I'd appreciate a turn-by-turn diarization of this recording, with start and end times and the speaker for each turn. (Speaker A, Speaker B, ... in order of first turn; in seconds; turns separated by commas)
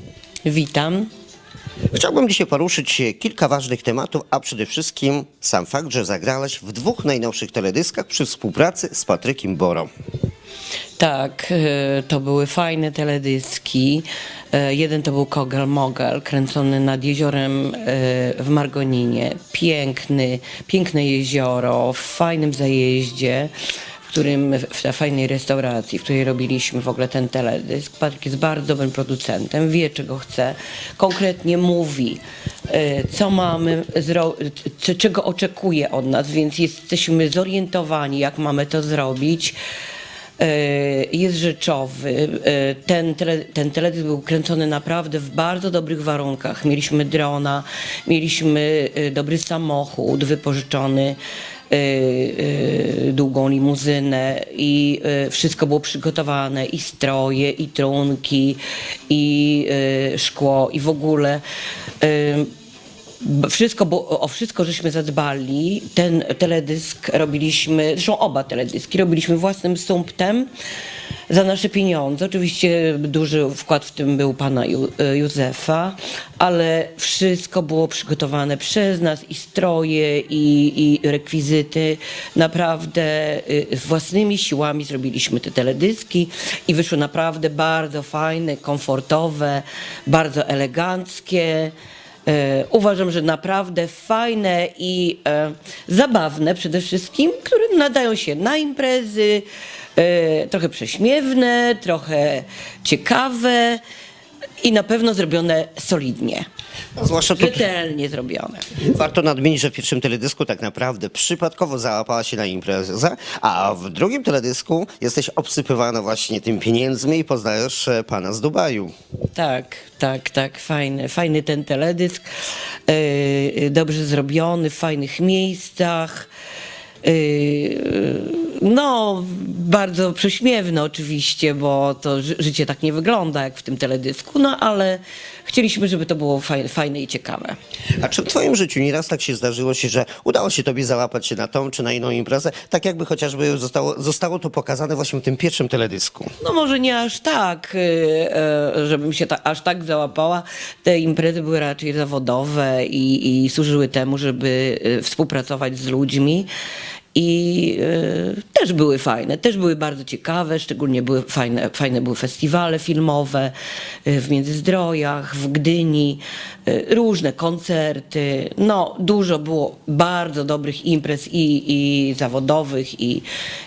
Speaker A: 0.5-1.1, Speaker B: 1.9-9.9, Speaker A: 11.0-23.5, Speaker A: 24.1-39.6, Speaker A: 40.4-51.2, Speaker A: 51.7-61.4, Speaker A: 62.0-62.5, Speaker A: 63.2-70.5, Speaker A: 71.3-91.7, Speaker A: 92.3-99.4, Speaker A: 100.0-103.8, Speaker A: 104.6-106.5, Speaker B: 107.0-107.7, Speaker A: 107.3-108.7, Speaker B: 108.8-118.9, Speaker A: 119.3-122.3, Speaker A: 122.9-126.3, Speaker A: 127.0-137.6, Speaker B: 137.9-146.3, Speaker A: 146.4-156.5, Speaker A: 157.1-163.5, Speaker A: 164.1-173.2